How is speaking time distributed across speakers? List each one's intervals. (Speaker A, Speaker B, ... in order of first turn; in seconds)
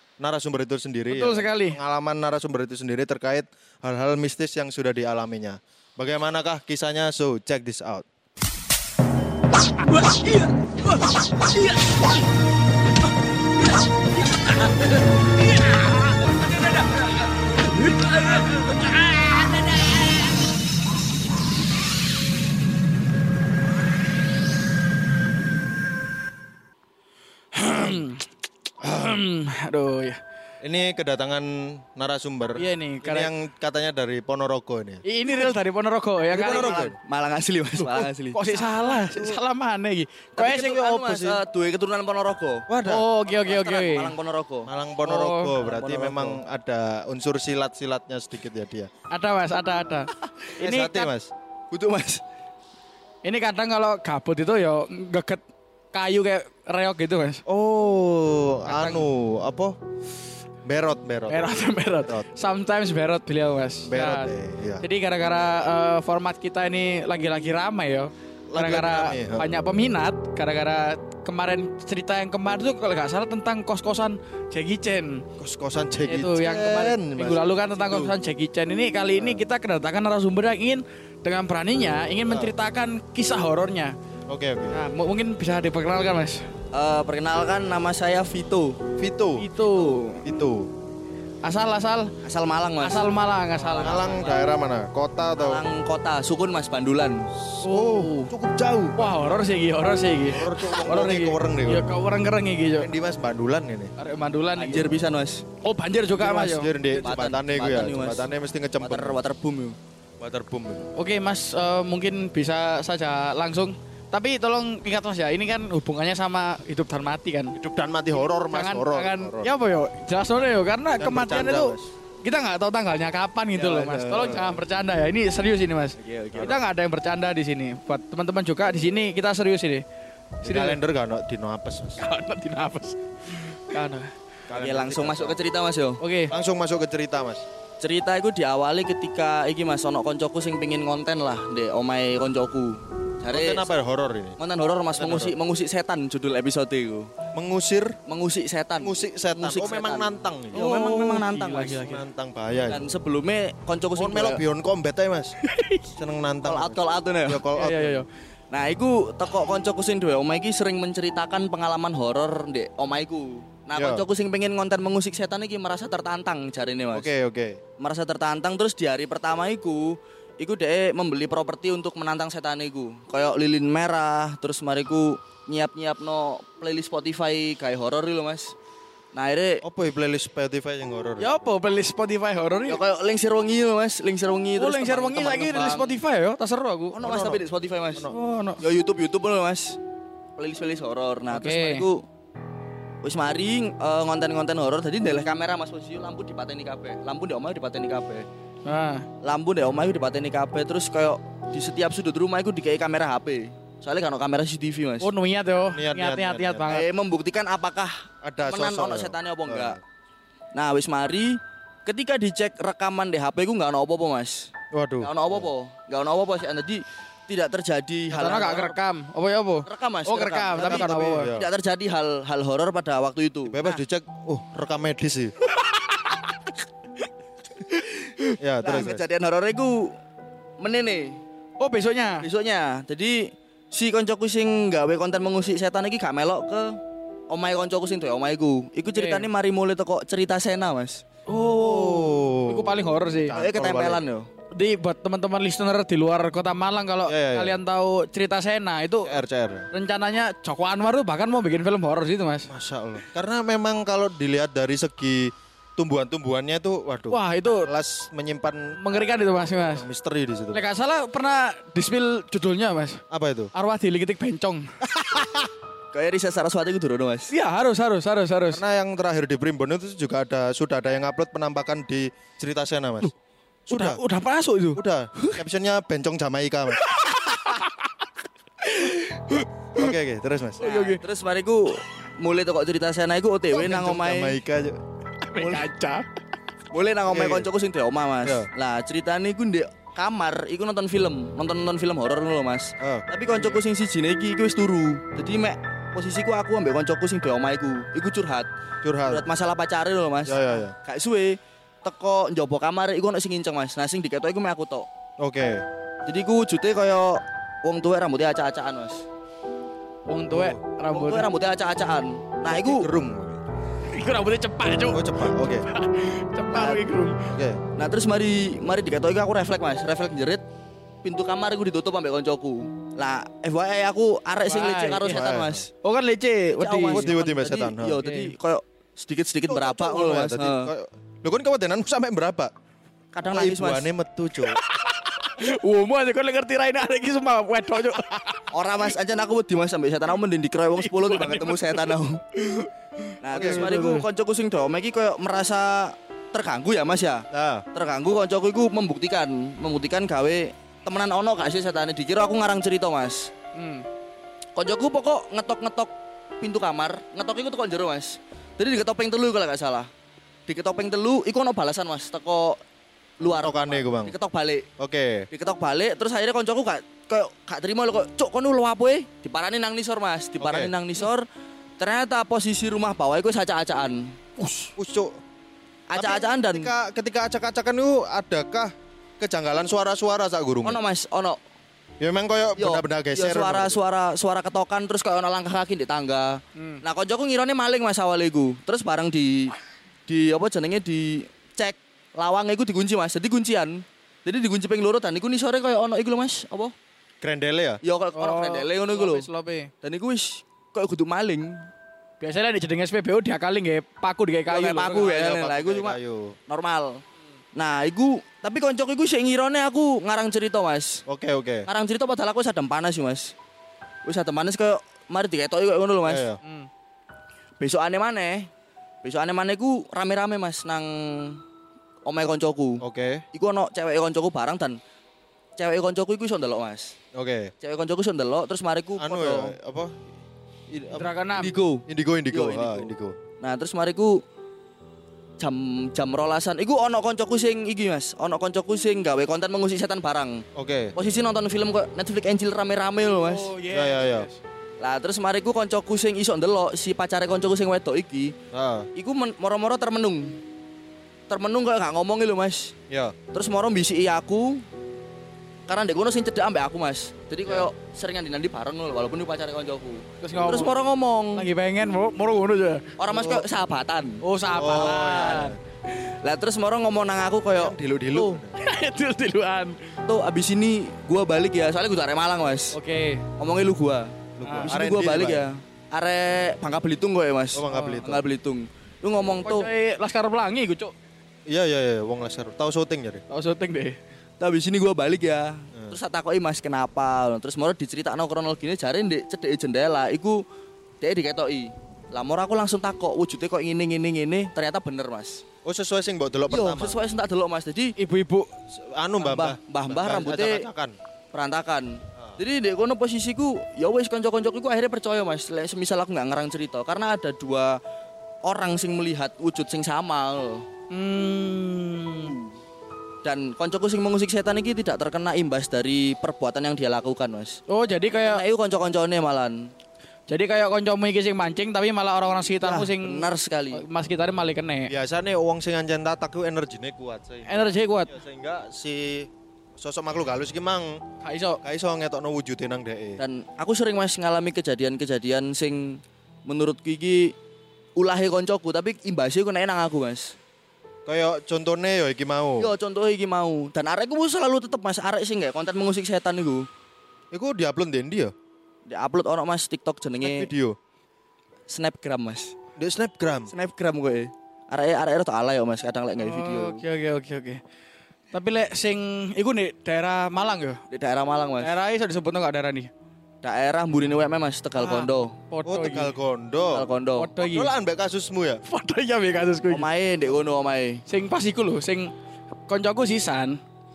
Speaker A: 0.2-8.1, 30.6-35.0, 36.3-37.0, 38.8-39.4, 41.0-41.4, 42.7-43.1, 44.7-48.9, 50.6-51.3, 57.5-59.8, 60.6-61.5, 63.9-64.8, 68.5-69.5, 75.4-78.1, 79.1-79.4, 82.3-82.5, 84.3-84.8, 89.0-89.5, 90.2-90.7, 93.8-95.6, 97.5-99.3, 100.3-101.9, 102.8-103.9, 106.2-109.2, 110.2-110.9, 117.5-119.5, 121.0-121.9, 124.0-124.6, 126.3-126.5, 130.4-132.0, 134.5-135.4, 136.3-137.4, 143.3-144.4, 144.9-145.3, 147.3-148.0, 148.8-150.8, 151.7-152.8, 153.9-155.3, 155.9-158.0, 163.7-164.0, 166.9-167.6, 179.6-181.3, 187.0-187.4, 205.7-206.7, 208.2-209.8, 214.7-215.5, 220.6-221.5, 223.5-225.3, 228.4-229.0, 241.3-244.0, 247.1-247.6, 249.0-249.7, 252.5-258.8, 259.7-260.6, 263.1-263.5, 264.9-265.5, 268.5-273.1, 273.6-274.0, 274.7-276.9, 279.8-280.6, 283.5-284.8, 287.1-287.5, 288.2-288.5, 292.8-293.5, 298.8-299.2, 300.2-300.7, 305.2-305.6, 310.3-310.6, 312.4-313.4, 314.7-315.7, 317.3-317.6, 325.0-325.7, 326.9-328.0, 329.5-332.5, 333.3-334.6, 343.3-344.0, 347.3-347.6, 363.4-364.1, 364.8-365.3, 370.4-370.7, 374.7-375.1, 375.9-380.8, 382.0-383.8, 397.2-397.8, 404.9-406.3, 411.1-411.6, 416.1-416.4, 422.8-423.2, 427.1-427.5, 429.0-430.0, 430.7-431.1, 431.9-433.2, 440.5-440.9, 443.7-444.3, 448.5-448.9, 452.9-453.1, 457.4-457.7, 464.5-465.6, 467.5-468.5, 474.4-475.5, 477.5-478.2, 481.5-483.2, 495.6-497.1, 498.7-500.9, 524.9-531.0, 531.6-533.2, 541.0-542.7, 547.3-548.3, 550.2-550.8, 552.8-553.5, 565.6-566.9, 567.4-568.6
Speaker B: 1.1-1.8, 9.9-10.5, 27.5-28.3, 28.8-30.2, 32.6-33.3, 35.0-36.8, 37.8-41.2, 42.8-44.1, 45.0-45.5, 49.1-51.1, 53.2-57.4, 58.7-59.0, 61.3-64.3, 64.8-75.2, 76.1-83.9, 84.7-86.4, 89.4-90.2, 91.4-92.1, 92.8-94.1, 97.6-98.3, 99.0-102.9, 104.0-104.9, 105.6-106.7, 111.0-117.5, 118.5-129.8, 130.4-130.8, 132.0-134.1, 136.0-136.3, 150.6-152.0, 155.4-155.8, 157.5-158.1, 181.2-182.8, 184.6-187.0, 188.1-188.6, 191.3-191.8, 198.6-199.1, 205.0-206.9, 218.1-221.3, 225.6-226.5, 231.6-232.2, 238.8-239.3, 241.3-243.3, 244.5-249.1, 249.7-252.5, 257.1-257.7, 258.8-259.9, 260.5-263.0, 263.5-264.7, 267.3-268.6, 273.7-275.4, 276.8-277.9, 278.6-279.9, 280.6-281.0, 285.2-286.0, 310.1-311.3, 313.9-317.2, 324.4-325.3, 325.8-327.1, 328.0-328.3, 334.5-338.4, 340.8-343.9, 353.5-353.8, 386.5-386.8, 398.1-399.7, 402.2-405.2, 416.4-416.7, 430.9-431.5, 443.2-444.4, 460.2-460.7, 461.3-462.9, 464.2-465.6, 468.1-469.8, 472.7-473.2, 474.4-474.7, 477.7-478.0, 479.3-480.9, 483.3-484.0, 498.0-498.5, 510.9-512.4, 517.7-518.4, 520.3-524.9, 527.5-528.1, 531.2-531.6, 556.2-557.6, 558.3-560.8, 561.6-562.9, 564.8-566.1, 567.1-567.7, 568.6-569.9, 571.1-572.1, 572.7-573.6
Speaker C: 36.3-38.4, 40.4-42.7, 43.3-44.7, 45.6-46.4, 51.7-52.2, 86.7-88.8, 92.2-94.4, 95.3-97.3, 104.6-105.4, 107.0-108.3, 108.8-109.8, 123.5-124.5, 126.0-126.6, 134.5-136.0, 137.8-143.6, 144.4-147.1, 148.1-151.9, 152.7-154.4, 156.4-157.4, 158.5-167.1, 167.8-178.5, 179.1-179.6, 182.7-185.9, 186.9-189.8, 190.3-192.1, 193.0-198.2, 199.2-205.1, 206.7-209.8, 210.5-218.8, 219.6-223.8, 228.6-230.0, 230.6-231.2, 232.2-236.8, 237.3-241.0, 243.3-244.3, 265.9-267.3, 280.6-284.4, 286.7-298.5, 299.0-304.9, 306.1-309.0, 310.9-312.9, 316.5-316.8, 317.8-320.4, 321.0-325.7, 326.6-330.7, 333.1-333.9, 338.5-342.2, 343.2-353.3, 354.6-359.9, 360.5-362.6, 363.2-364.7, 365.3-371.2, 371.8-374.2, 375.9-376.7, 380.6-381.4, 382.6-389.5, 390.1-396.7, 397.8-399.3, 399.8-401.7, 404.5-406.0, 406.5-407.0, 407.6-411.0, 411.6-413.3, 414.0-416.2, 417.6-418.5, 419.0-421.4, 422.1-424.8, 425.6-426.9, 427.6-429.5, 431.4-434.2, 435.4-443.5, 444.8-448.3, 448.9-450.4, 451.3-452.7, 453.3-454.6, 455.7-461.5, 463.0-464.2, 464.7-465.3, 466.2-467.8, 470.1-472.8, 473.4-479.7, 484.4-490.4, 491.0-495.4, 496.5-497.9, 499.2-500.6, 501.3-507.8, 508.4-510.6, 513.2-517.6, 518.1-519.7, 522.6-523.8, 533.2-537.3, 538.0-540.3, 542.6-546.6, 548.9-550.5, 551.7-552.5, 553.5-556.8, 560.9-561.7, 563.4-565.4, 566.7-567.3, 569.7-571.0